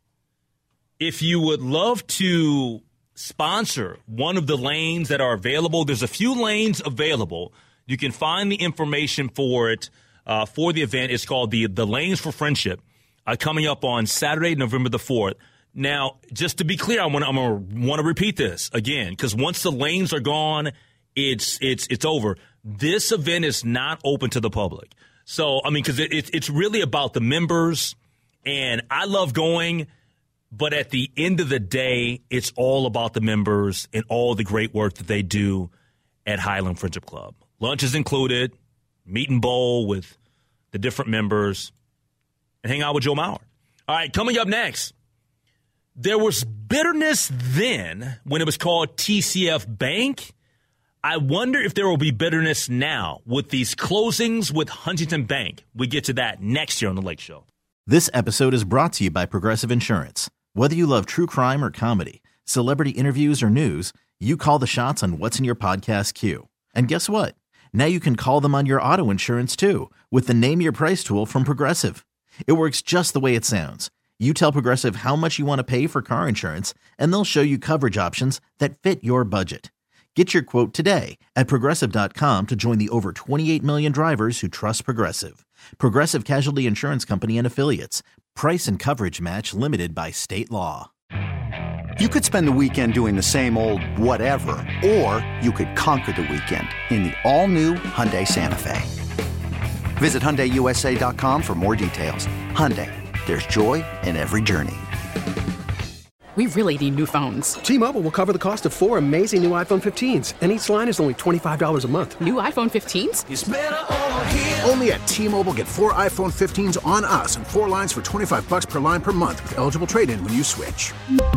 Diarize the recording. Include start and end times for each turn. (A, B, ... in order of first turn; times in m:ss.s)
0:01.0-0:29.9 A
0:30.5-0:35.7 A
0:36.3-0:38.5 A
0:39.1-0:40.2 A
0:40.7-0:41.7 A
0:42.6-0:44.9 A
0:46.0-0:50.3 A
0:51.0-0:57.4 A
0:57.9-1:30.9 B
1:32.0-1:38.9 C
1:40.0-1:44.8 C
1:46.4-1:47.6 D
1:47.6-1:52.2 E
1:52.2-1:53.3 D
1:53.3-2:01.0 F